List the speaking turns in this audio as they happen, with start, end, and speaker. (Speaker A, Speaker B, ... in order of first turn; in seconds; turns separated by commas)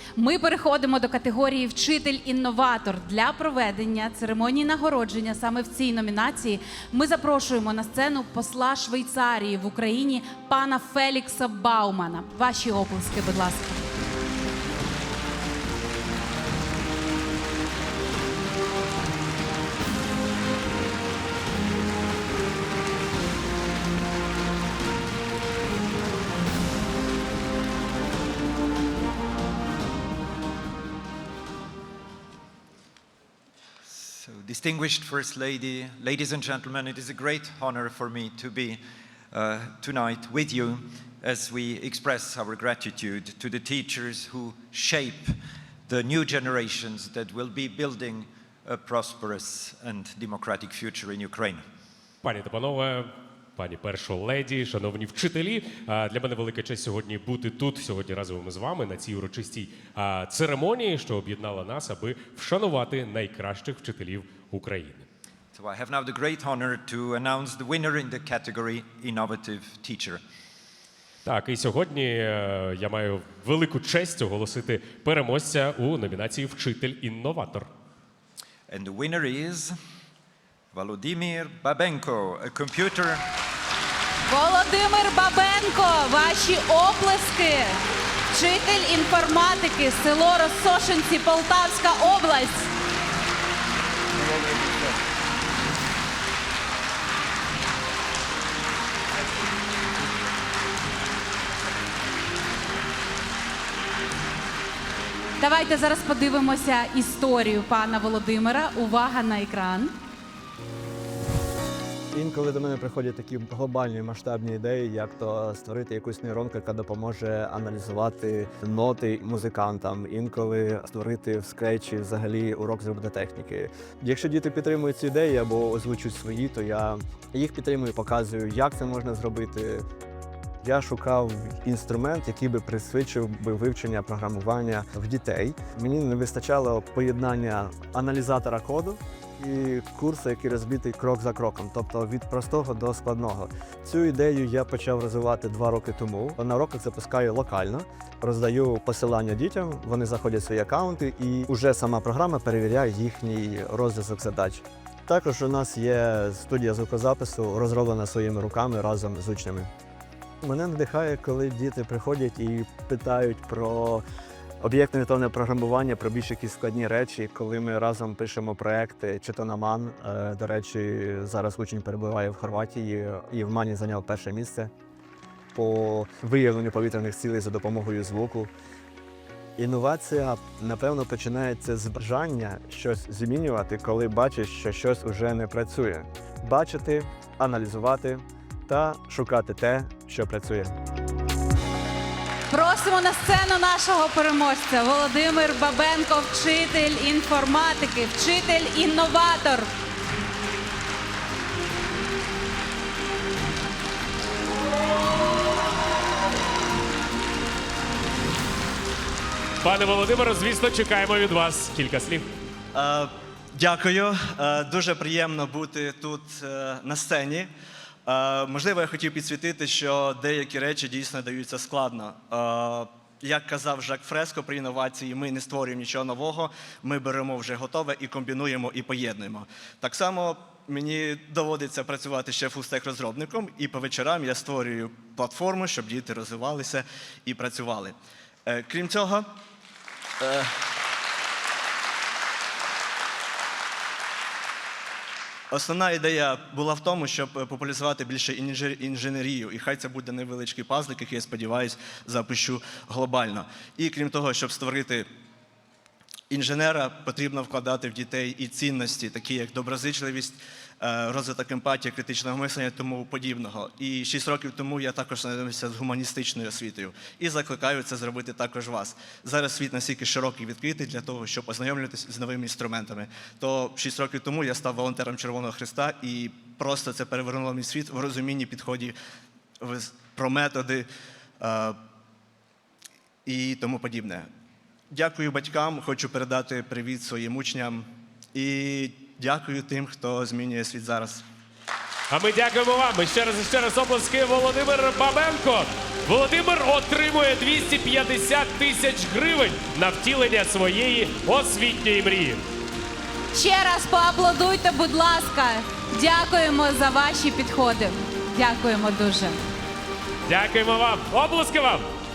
Speaker A: 0.2-13.8, Speaker B: 33.9-45.4, Speaker B: 45.9-51.6, Speaker C: 52.2-65.0, Speaker B: 65.5-70.2, Speaker C: 71.2-77.7, Speaker B: 78.7-79.8, Speaker B: 80.7-83.2, Speaker A: 84.3-87.8, Speaker A: 88.3-92.7, Speaker A: 105.4-109.9, Speaker D: 112.1-129.8, Speaker D: 130.6-159.7, Speaker D: 160.4-164.0, Speaker D: 164.6-174.7, Speaker D: 175.5-178.5, Speaker D: 179.6-190.7, Speaker A: 192.5-199.7, Speaker C: 209.6-212.3, Speaker E: 212.7-217.5, Speaker E: 218.1-239.3, Speaker E: 240.2-240.5, Speaker E: 245.5-255.1, Speaker E: 256.3-278.9, Speaker E: 279.6-280.9, Speaker E: 281.4-281.8, Speaker E: 283.3-284.3, Speaker E: 284.9-291.2, Speaker C: 292.1-302.4, Speaker A: 303.3-309.4, Speaker C: 310.3-311.9